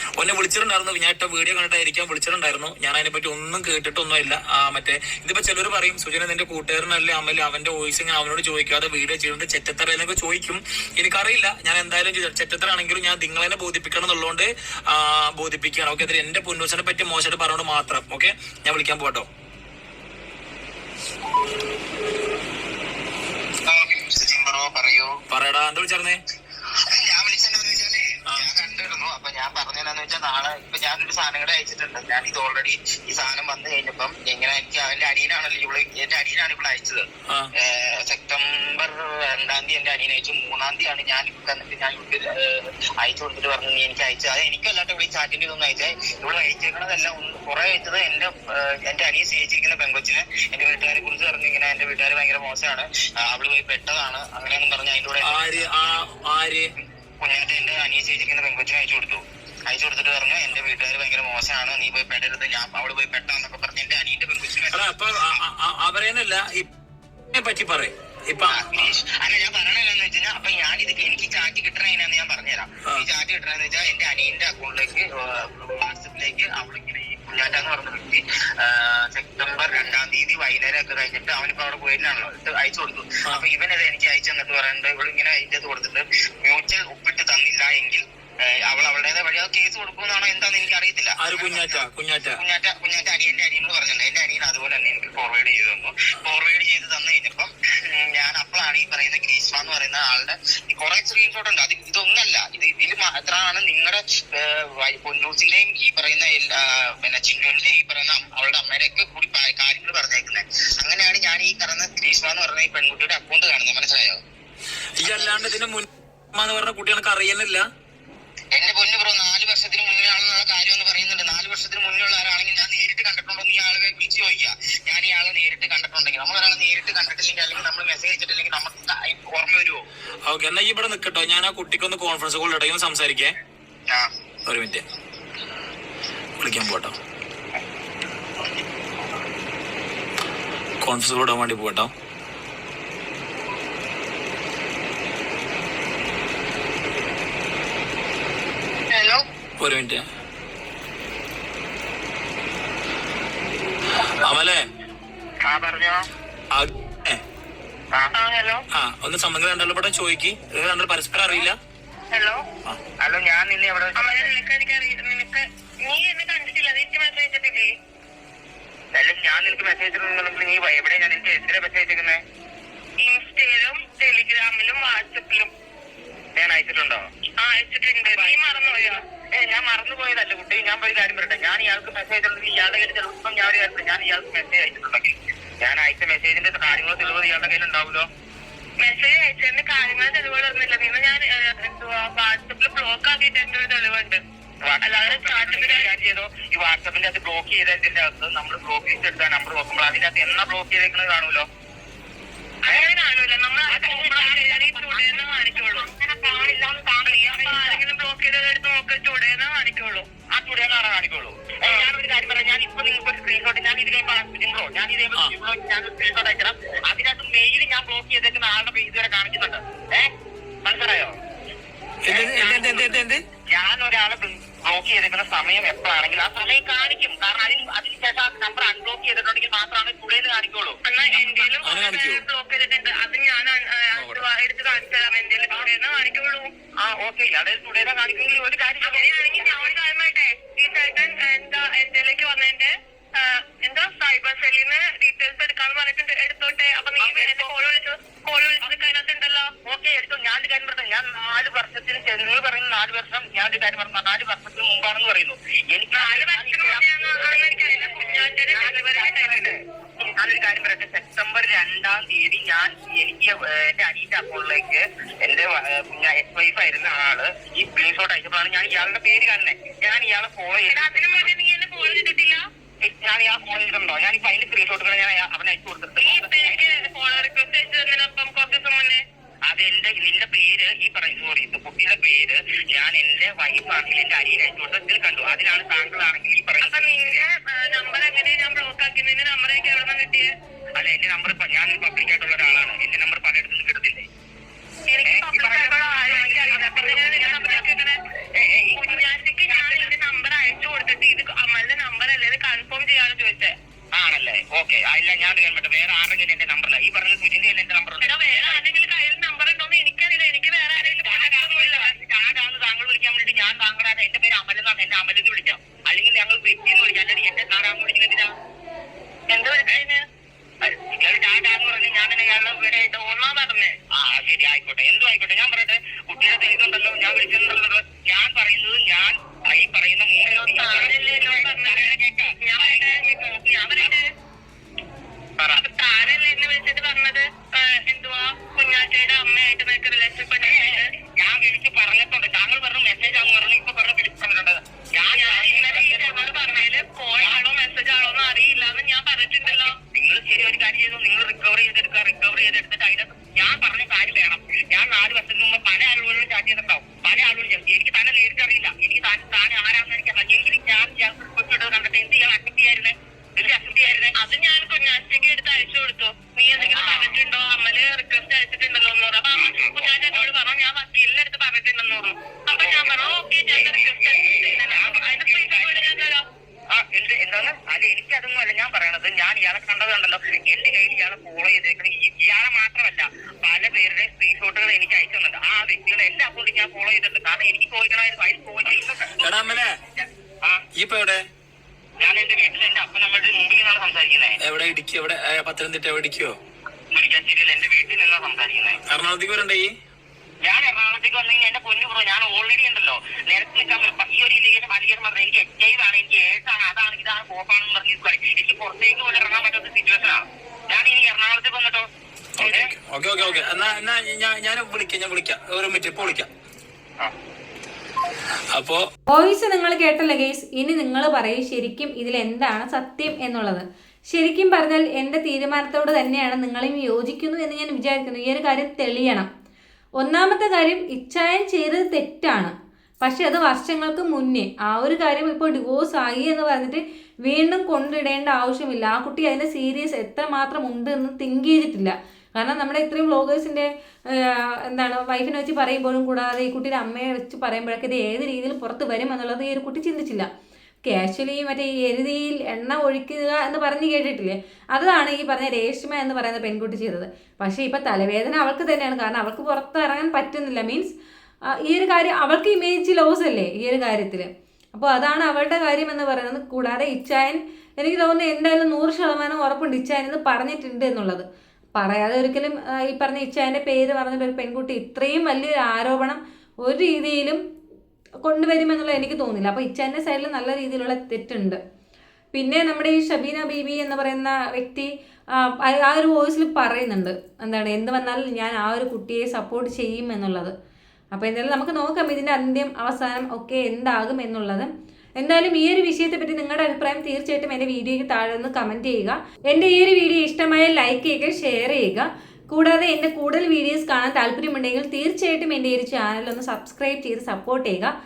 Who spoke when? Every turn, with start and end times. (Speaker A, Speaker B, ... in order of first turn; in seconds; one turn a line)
Speaker A: 0.2-19.3
Speaker B: 23.6-25.2
Speaker A: 25.3-26.2
Speaker B: 26.9-56.0
Speaker A: 55.2-56.7
Speaker B: 57.2-65.4
Speaker A: 64.7-66.7
Speaker A: 67.3-68.9
Speaker B: 68.5-91.8
Speaker A: 91.2-92.4
Speaker B: 92.4-114.2
Speaker A: 115.0-117.7
Speaker B: 115.0-115.4
Speaker B: 118.5-129.8
Speaker A: 130.2-133.3
Speaker A: 134.4-134.8
Speaker A: 136.4-136.9
Speaker A: 140.8-141.9
Speaker C: 148.9-149.2
Speaker A: 149.6-150.0
Speaker A: 154.0-154.6
Speaker B: 155.4-156.0
Speaker A: 156.5-157.2
Speaker C: 158.1-158.7
Speaker A: 158.7-161.6
Speaker C: 162.1-162.4
Speaker B: 163.0-164.3
Speaker C: 163.9-167.7
Speaker B: 168.9-172.2
Speaker C: 173.0-175.5
Speaker B: 176.3-177.1
Speaker C: 177.4-179.0
Speaker B: 178.0-188.1
Speaker C: 188.8-194.2
Speaker B: 194.6-201.5
Speaker C: 194.8-195.9
Speaker C: 202.6-205.9
Speaker B: 203.7-207.8
Speaker C: 207.0-210.1
Speaker B: 210.2-220.1
Speaker C: 211.7-211.9
Speaker B: 220.6-221.2
Speaker A: 222.0-223.2
Speaker B: 222.1-222.9
Speaker B: 223.5-231.5
Speaker C: 230.8-236.5
Speaker A: 231.6-232.2
Speaker A: 233.9-234.3
Speaker B: 236.8-239.7
Speaker C: 238.8-249.6
Speaker B: 247.0-247.6
Speaker B: 249.6-271.2
Speaker C: 255.9-259.6
Speaker C: 270.6-272.4
Speaker B: 272.8-276.6
Speaker C: 276.0-279.0
Speaker B: 279.5-287.2
Speaker C: 286.6-290.3
Speaker B: 290.8-294.1
Speaker C: 294.9-298.0
Speaker B: 295.0-297.7
Speaker B: 298.3-299.9
Speaker C: 298.7-303.5
Speaker B: 303.9-308.7
Speaker C: 308.0-312.0
Speaker B: 310.7-318.3
Speaker C: 319.3-320.0
Speaker B: 320.6-323.0
Speaker C: 322.9-323.8
Speaker B: 323.9-334.0
Speaker C: 330.2-334.0
Speaker B: 335.4-336.1
Speaker C: 335.5-340.9
Speaker B: 340.4-347.5
Speaker C: 345.1-349.8
Speaker B: 349.4-364.2
Speaker C: 363.6-370.4
Speaker B: 366.3-367.3
Speaker B: 368.7-376.1
Speaker C: 372.5-376.2
Speaker B: 376.7-390.6
Speaker A: 389.2-389.8
Speaker A: 390.8-391.2
Speaker B: 392.0-394.4
Speaker A: 394.4-396.4
Speaker B: 396.9-398.8
Speaker A: 398.9-399.7
Speaker B: 400.4-411.9
Speaker A: 412.4-416.3
Speaker B: 412.4-412.7
Speaker A: 418.5-418.8
Speaker D: 419.1-429.3
Speaker D: 430.0-450.3
Speaker D: 450.8-460.9
Speaker D: 461.5-477.4
Speaker D: 478.2-481.6
Speaker D: 482.3-490.5
Speaker D: 491.1-507.9